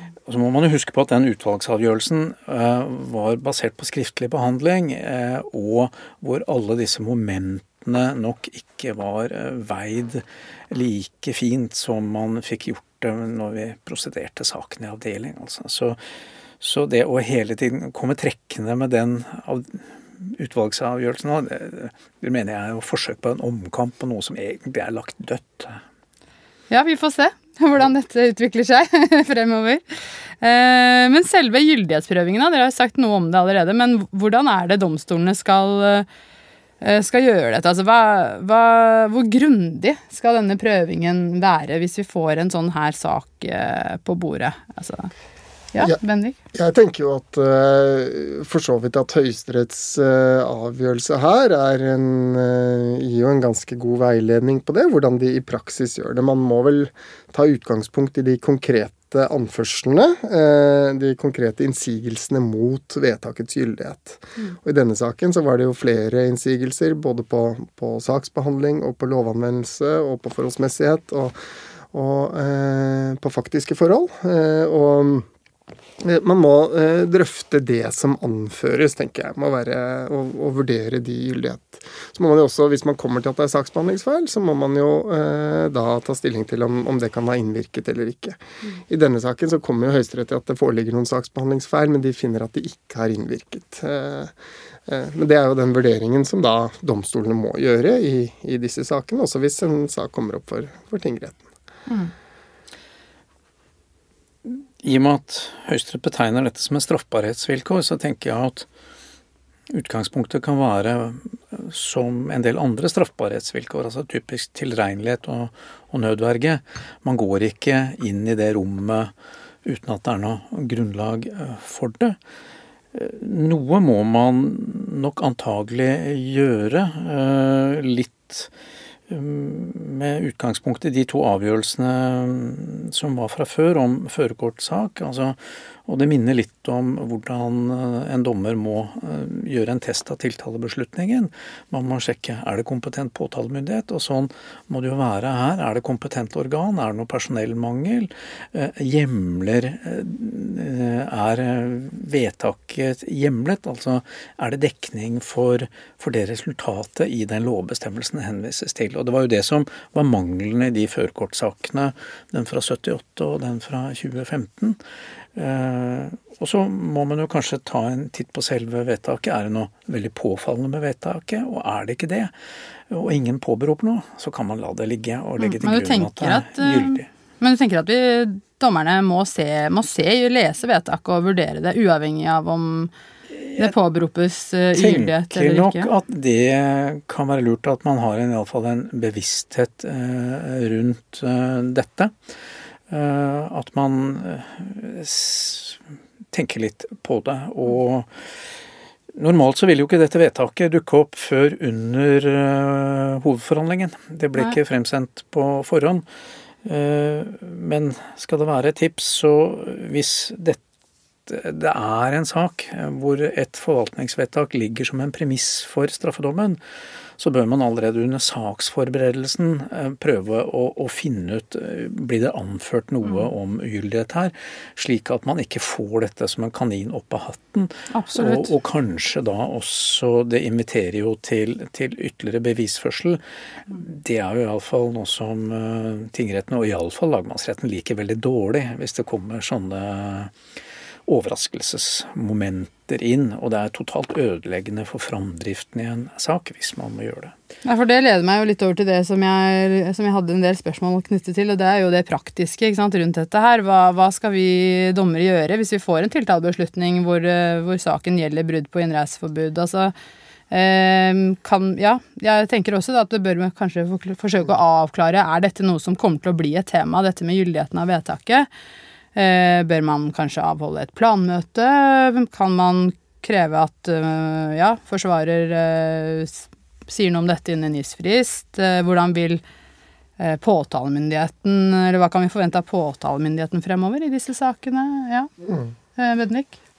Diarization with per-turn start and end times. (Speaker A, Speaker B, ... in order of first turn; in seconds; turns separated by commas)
Speaker A: 0.2-16.0, Speaker A: 16.6-25.8, Speaker B: 26.7-36.1, Speaker B: 36.8-45.1, Speaker B: 45.7-46.4, Speaker C: 46.5-71.4, Speaker C: 71.9-75.3, Speaker C: 76.0-94.3, Speaker C: 94.9-101.4, Speaker B: 101.9-102.1, Speaker A: 104.4-108.7, Speaker A: 109.7-119.1, Speaker A: 119.6-122.2, Speaker A: 122.9-128.5, Speaker A: 129.1-164.8, Speaker A: 165.3-172.3, Speaker A: 172.9-177.1, Speaker B: 175.4-182.9, Speaker A: 183.4-183.7, Speaker B: 183.6-185.9, Speaker A: 184.7-192.1, Speaker A: 192.9-195.8, Speaker A: 196.3-198.3, Speaker A: 199.1-206.0, Speaker A: 206.6-210.6, Speaker A: 211.3-216.6, Speaker A: 217.2-233.2, Speaker B: 227.9-228.5, Speaker A: 233.7-240.3, Speaker A: 241.1-247.3, Speaker B: 247.6-259.9, Speaker B: 260.5-268.5, Speaker B: 269.1-279.4, Speaker B: 280.2-285.3, Speaker C: 285.4-285.7, Speaker B: 285.9-286.6